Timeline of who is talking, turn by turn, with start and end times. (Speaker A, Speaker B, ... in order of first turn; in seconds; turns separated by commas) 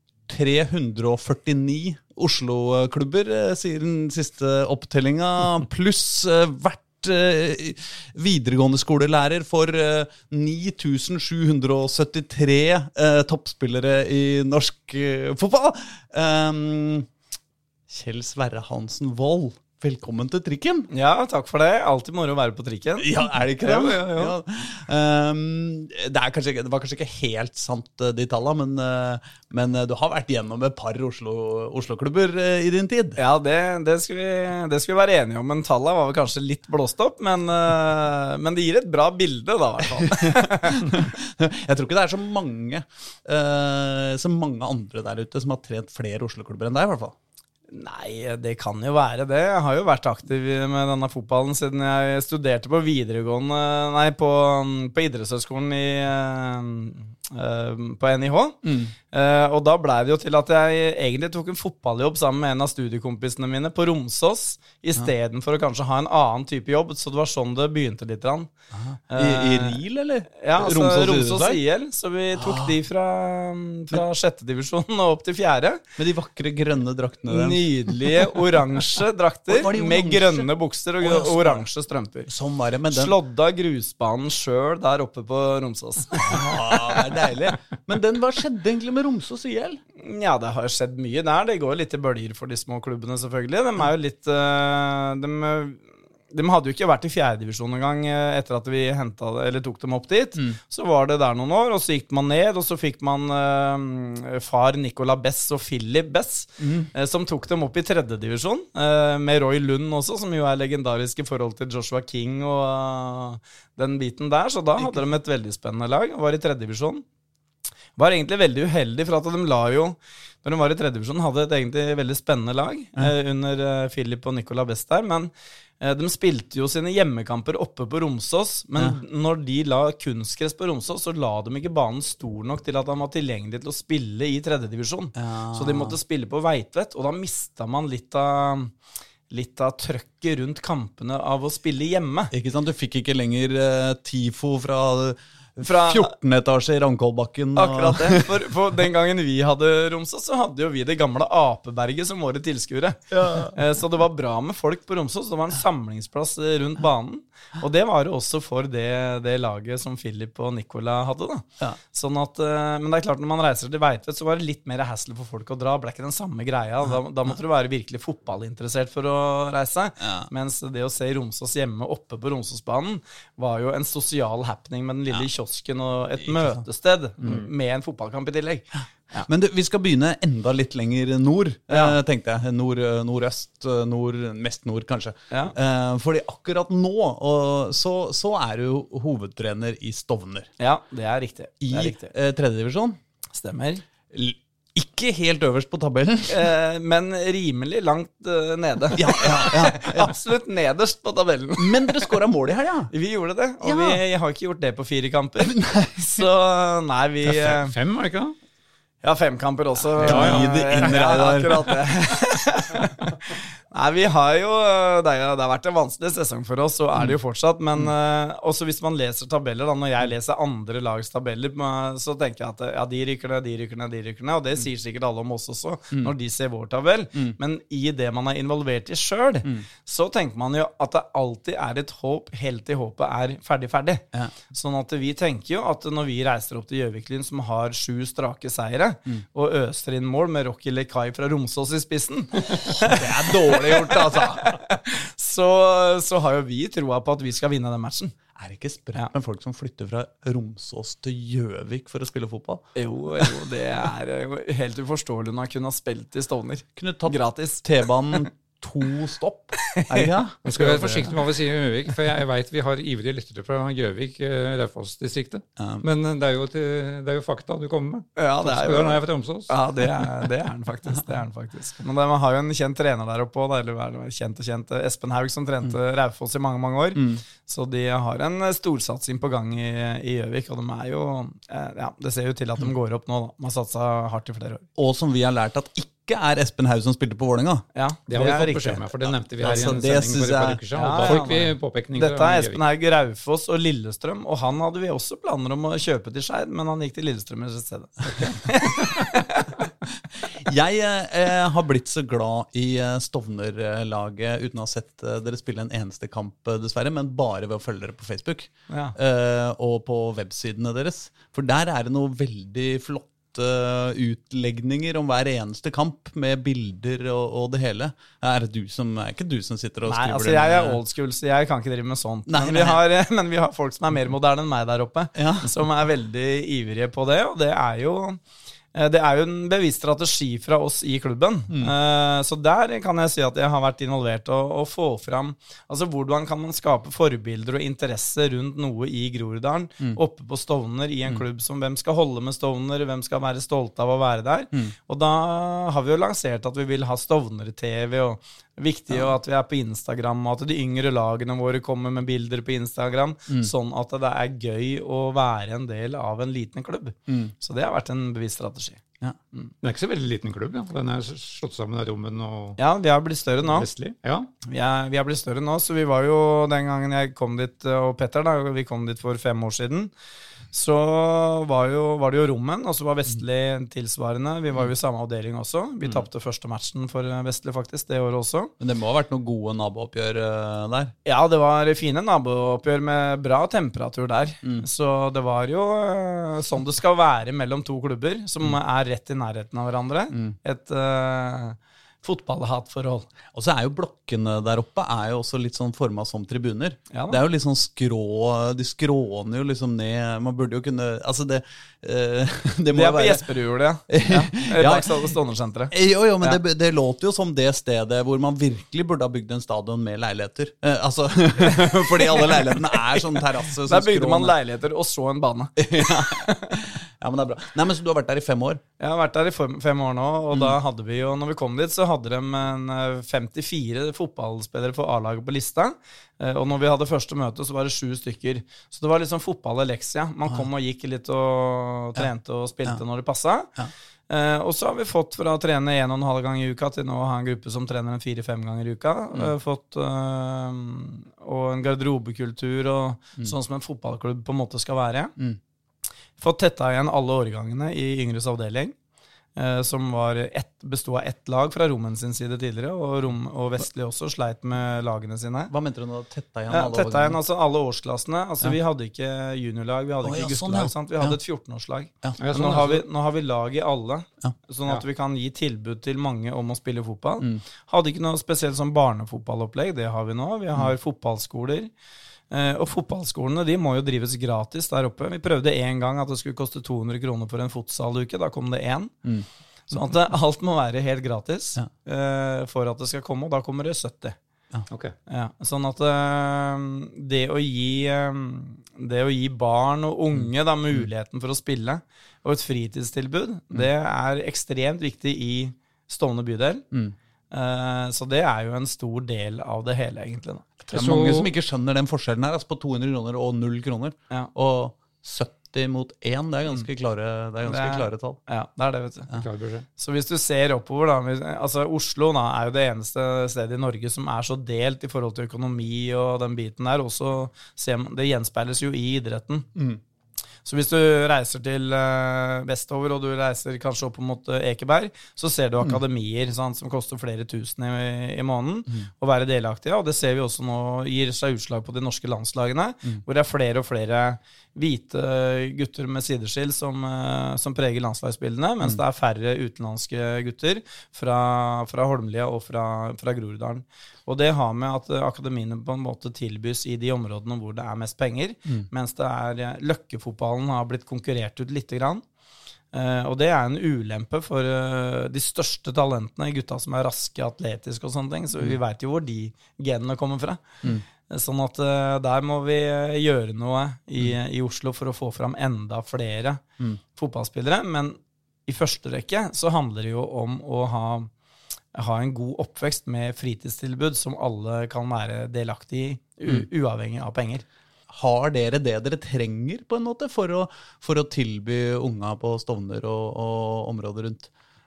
Speaker A: 0.3-17.1, Speaker A: 17.9-20.9, Speaker B: 20.9-24.4, Speaker A: 23.0-33.2, Speaker B: 33.2-40.9, Speaker A: 40.0-47.1, Speaker B: 47.7-58.6, Speaker A: 58.6-58.9, Speaker B: 59.1-68.5, Speaker A: 68.7-71.6, Speaker B: 69.1-69.8, Speaker B: 70.3-75.8, Speaker A: 72.4-72.7, Speaker A: 76.0-78.3, Speaker B: 77.3-82.3, Speaker A: 79.5-80.5, Speaker A: 81.0-81.7, Speaker A: 82.3-83.2, Speaker B: 82.9-87.0, Speaker A: 86.2-89.8, Speaker B: 90.0-117.0, Speaker A: 106.6-106.9, Speaker B: 118.0-138.7, Speaker A: 135.2-136.0, Speaker B: 139.3-142.3, Speaker A: 142.3-148.4, Speaker B: 145.6-146.1, Speaker B: 147.6-179.3, Speaker A: 153.1-153.5, Speaker A: 170.0-170.3, Speaker A: 176.2-176.6, Speaker A: 179.3-190.5, Speaker B: 181.7-182.0, Speaker B: 190.6-192.1, Speaker A: 191.6-193.0, Speaker B: 193.3-193.8, Speaker A: 194.1-196.4, Speaker B: 196.3-202.1, Speaker A: 198.9-200.1, Speaker A: 201.6-202.9, Speaker B: 202.9-207.7, Speaker A: 203.6-204.0, Speaker A: 205.5-206.0, Speaker C: 207.2-208.4, Speaker B: 209.0-248.2, Speaker A: 210.0-211.8, Speaker C: 210.0-211.1, Speaker A: 242.7-244.6, Speaker A: 248.4-252.6, Speaker B: 252.8-258.3, Speaker A: 256.8-261.1, Speaker B: 259.6-260.8, Speaker C: 260.4-269.5, Speaker A: 265.6-265.8, Speaker B: 268.2-284.7, Speaker A: 277.0-277.2, Speaker A: 284.8-287.6, Speaker B: 287.8-288.9, Speaker C: 288.1-292.6, Speaker A: 289.4-291.2, Speaker B: 289.5-289.8, Speaker B: 290.7-299.6, Speaker A: 300.2-320.8, Speaker B: 308.7-308.9, Speaker B: 319.9-328.2, Speaker A: 322.3-322.8, Speaker A: 325.1-325.5, Speaker B: 328.7-358.8, Speaker A: 357.1-357.3, Speaker C: 359.6-362.6, Speaker B: 362.6-363.7, Speaker C: 363.4-364.3, Speaker B: 364.5-369.9, Speaker B: 370.5-378.5, Speaker A: 378.6-380.9, Speaker B: 381.1-393.1, Speaker A: 393.3-403.3, Speaker B: 396.9-397.2, Speaker B: 402.7-406.4, Speaker A: 403.9-404.9, Speaker A: 405.7-414.4, Speaker B: 412.3-416.6, Speaker A: 415.6-418.6, Speaker B: 418.8-433.5, Speaker B: 434.1-445.1, Speaker B: 446.2-448.8, Speaker B: 449.4-455.5, Speaker A: 455.5-457.2, Speaker B: 456.5-471.7, Speaker A: 460.0-461.2, Speaker C: 462.2-462.8, Speaker B: 472.3-478.9, Speaker B: 479.7-484.2, Speaker C: 484.7-484.9, Speaker B: 485.1-496.6, Speaker B: 497.3-500.5, Speaker A: 500.6-508.2, Speaker C: 500.7-501.3, Speaker B: 507.4-509.1, Speaker C: 509.1-509.7, Speaker B: 509.8-519.5, Speaker A: 519.5-519.8, Speaker B: 520.5-552.0, Speaker B: 552.7-571.1, Speaker B: 571.7-577.4, Speaker A: 577.9-584.3